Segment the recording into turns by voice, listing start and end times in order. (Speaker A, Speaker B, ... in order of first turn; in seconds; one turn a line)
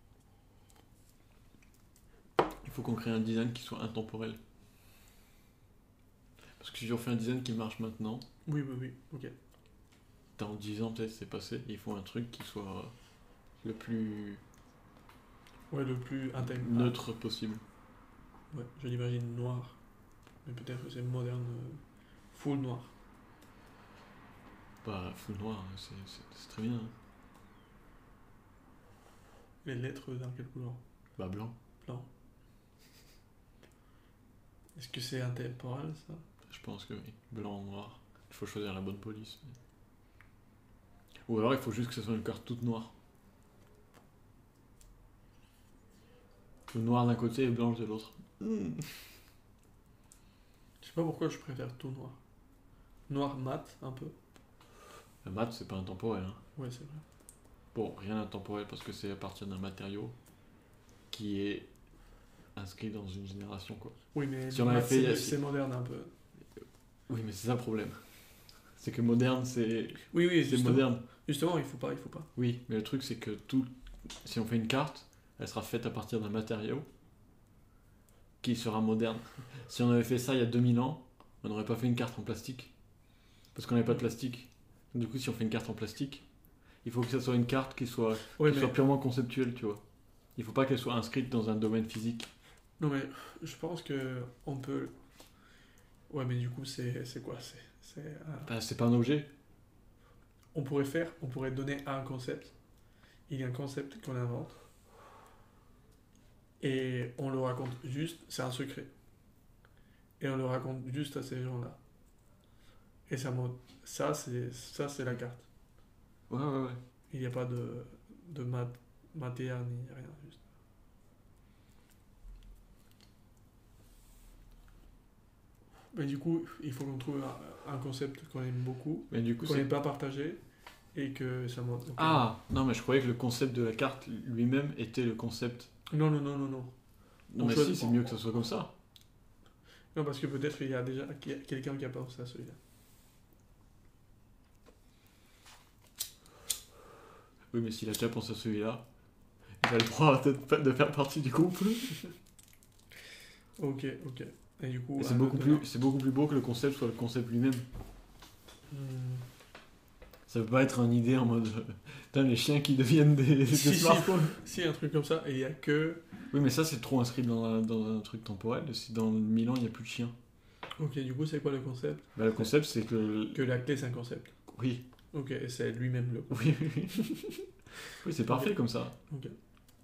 Speaker A: 2.6-4.4
Speaker A: 6.6-8.2
Speaker B: 8.4-9.3
Speaker A: 10.4-12.9
Speaker A: 13.6-14.4
Speaker B: 15.7-17.0
Speaker A: 16.4-17.6
Speaker B: 18.5-19.8
Speaker B: 20.4-21.8
Speaker B: 22.3-22.9
Speaker A: 24.8-26.9
Speaker B: 29.6-30.8
Speaker A: 31.2-31.5
Speaker B: 34.8-36.2
Speaker A: 36.5-39.5
Speaker A: 41.3-42.9
Speaker A: 46.7-48.8
Speaker B: 50.8-52.2
Speaker B: 53.1-54.1
Speaker A: 55.2-56.4
Speaker B: 56.5-57.0
Speaker A: 57.7-60.1
Speaker A: 61.1-61.7
Speaker A: 62.5-64.0
Speaker B: 64.1-66.1
Speaker A: 64.5-65.4
Speaker A: 67.1-68.0
Speaker A: 68.8-71.0
Speaker B: 70.1-72.3
Speaker A: 72.3-76.8
Speaker A: 78.4-82.7
Speaker A: 83.5-86.2
Speaker A: 86.8-89.8
Speaker B: 88.4-88.8
Speaker A: 90.3-92.3
Speaker B: 92.8-94.9
Speaker B: 96.1-98.5
Speaker A: 98.5-99.3
Speaker B: 100.5-102.5
Speaker B: 103.3-104.6
Speaker B: 106.6-108.9
Speaker B: 110.2-111.8
Speaker B: 113.1-115.4
Speaker A: 116.3-116.8
Speaker B: 117.1-120.4
Speaker B: 125.9-130.4
Speaker A: 129.1-129.7
Speaker B: 130.9-132.2
Speaker A: 131.9-135.7
Speaker B: 135.9-136.7
Speaker A: 137.3-138.7
Speaker B: 137.4-138.1
Speaker B: 139.9-142.6
Speaker A: 147.5-148.8
Speaker A: 149.6-152.0
Speaker B: 153.6-155.6
Speaker A: 155.0-157.6
Speaker B: 158.7-159.2
Speaker A: 160.3-164.3
Speaker B: 163.5-166.0
Speaker A: 166.3-170.1
Speaker B: 170.8-172.1
Speaker A: 172.2-173.4
Speaker B: 173.3-174.3
Speaker A: 174.5-174.8
Speaker B: 175.1-177.4
Speaker A: 176.3-177.1
Speaker A: 177.9-178.9
Speaker B: 178.3-178.6
Speaker B: 179.1-179.3